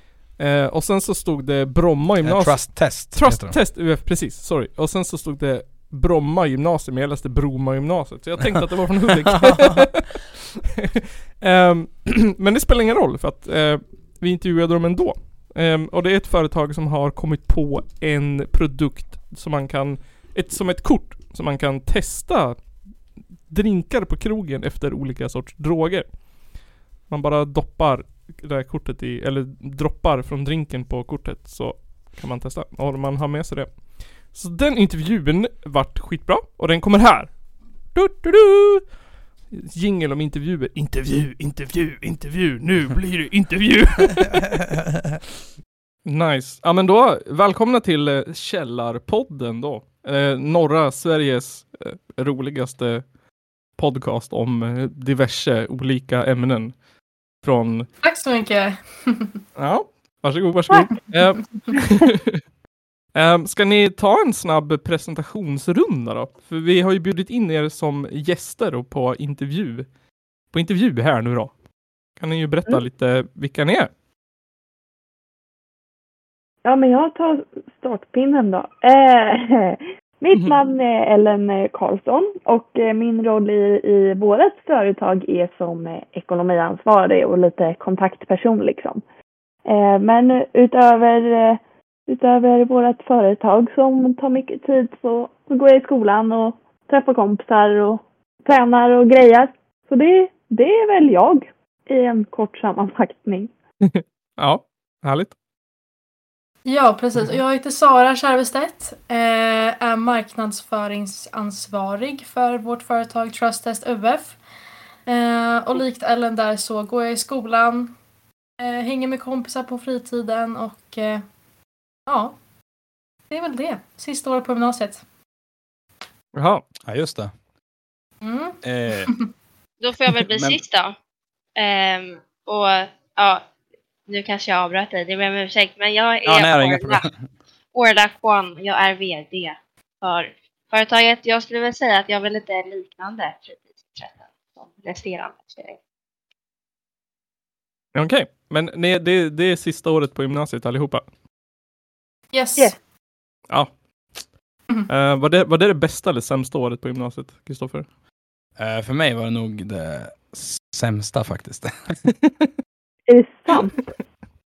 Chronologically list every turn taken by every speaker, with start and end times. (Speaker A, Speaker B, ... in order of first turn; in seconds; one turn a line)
Speaker A: 0.4-10.2
Speaker B: 2.2-3.6
Speaker B: 9.3-9.9
Speaker A: 10.8-22.9
Speaker A: 23.5-26.2
Speaker A: 27.1-37.4
Speaker A: 37.9-38.9
Speaker A: 39.5-44.6
Speaker A: 46.0-53.1
Speaker A: 53.7-56.8
Speaker A: 57.4-57.9
Speaker C: 58.0-59.3
Speaker A: 59.6-62.4
Speaker A: 63.1-69.9
Speaker A: 70.5-71.5
Speaker A: 72.2-73.9
Speaker D: 76.6-89.0
Speaker D: 89.7-103.5
Speaker A: 103.9-105.3
Speaker C: 106.7-114.4
Speaker C: 115.1-117.9
Speaker C: 118.6-121.2
Speaker C: 122.1-122.4
Speaker C: 123.3-125.0
Speaker A: 126.3-126.7
Speaker B: 126.8-127.3
Speaker C: 128.2-129.2
Speaker B: 128.6-129.1
Speaker E: 129.8-130.9
Speaker B: 130.3-130.6
Speaker E: 131.6-133.4
Speaker E: 134.1-137.1
Speaker B: 136.3-137.2
Speaker E: 137.7-145.8
Speaker A: 147.9-151.1
Speaker C: 152.3-152.8
Speaker A: 153.5-153.8
Speaker A: 154.9-157.9
Speaker B: 158.6-162.0
Speaker D: 163.1-164.0